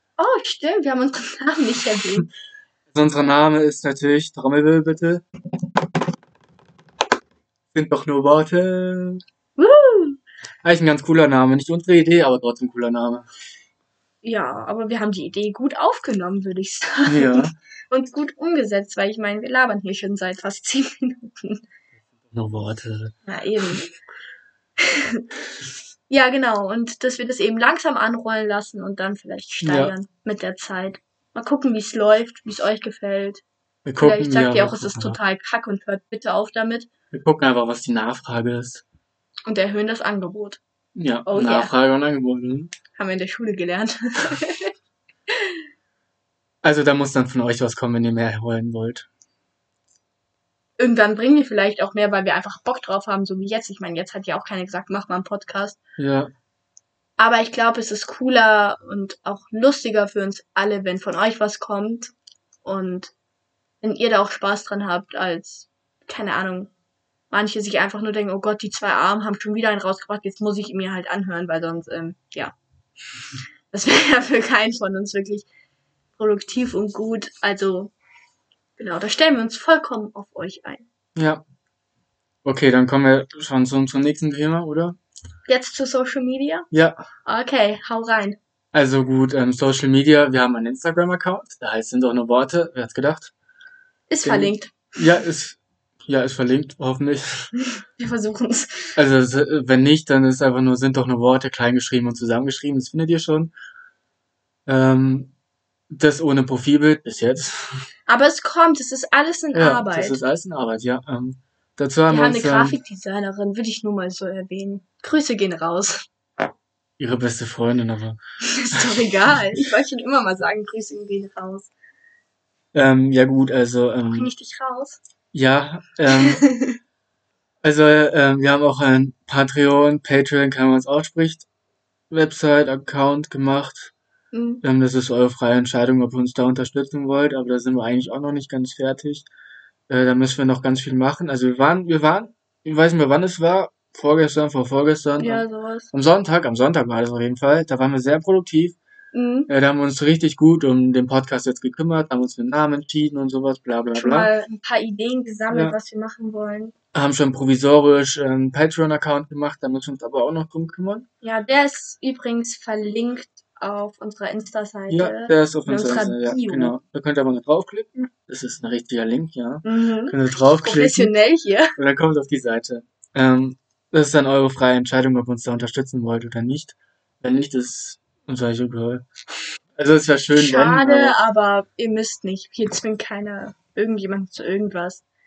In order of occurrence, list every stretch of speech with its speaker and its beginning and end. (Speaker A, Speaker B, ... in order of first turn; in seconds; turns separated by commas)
Speaker A: 0.2-2.3, Speaker B: 2.9-5.2, Speaker B: 7.7-9.2, Speaker A: 9.6-10.2, Speaker B: 10.6-13.2, Speaker A: 14.2-21.6, Speaker B: 17.1-17.5, Speaker B: 22.3-23.9, Speaker A: 23.3-23.8, Speaker A: 24.8-25.2, Speaker A: 26.1-33.4, Speaker B: 29.6-29.9, Speaker B: 33.9-35.2, Speaker A: 34.0-36.9, Speaker B: 37.1-38.8, Speaker A: 39.5-40.6, Speaker B: 40.9-42.7, Speaker A: 41.3-41.7, Speaker A: 43.0-44.7, Speaker A: 45.3-45.6, Speaker B: 46.6-49.1, Speaker A: 50.8-55.8, Speaker B: 56.0-56.3, Speaker A: 57.2-63.1, Speaker A: 63.8-66.7, Speaker A: 67.3-72.5, Speaker A: 73.7-75.5, Speaker A: 76.2-77.9, Speaker A: 78.8-80.8, Speaker B: 81.1-81.4, Speaker B: 82.4-85.0, Speaker A: 85.5-86.7, Speaker B: 86.7-87.0, Speaker A: 87.2-88.4, Speaker B: 88.7-93.3, Speaker A: 94.1-94.9, Speaker B: 94.2-97.5, Speaker A: 97.6-99.0, Speaker B: 99.0-103.5, Speaker B: 104.7-105.3, Speaker B: 105.9-107.7, Speaker A: 108.1-110.2, Speaker B: 109.5-112.8, Speaker A: 112.1-116.0, Speaker B: 117.0-118.2, Speaker A: 118.4-121.7, Speaker B: 118.7-119.4, Speaker B: 122.7-124.3, Speaker A: 124.1-125.0, Speaker B: 125.3-126.4, Speaker A: 126.1-126.8, Speaker B: 127.6-131.4, Speaker B: 132.1-133.9, Speaker A: 134.3-134.6, Speaker B: 134.6-139.3, Speaker B: 139.9-148.8, Speaker A: 145.2-145.9, Speaker A: 149.1-149.5, Speaker B: 149.5-154.3, Speaker A: 153.9-156.7, Speaker B: 155.5-155.7, Speaker B: 156.9-161.1, Speaker A: 161.2-166.7, Speaker B: 164.9-171.1, Speaker A: 169.6-171.7, Speaker B: 171.8-179.1, Speaker B: 179.8-181.2, Speaker A: 180.3-185.0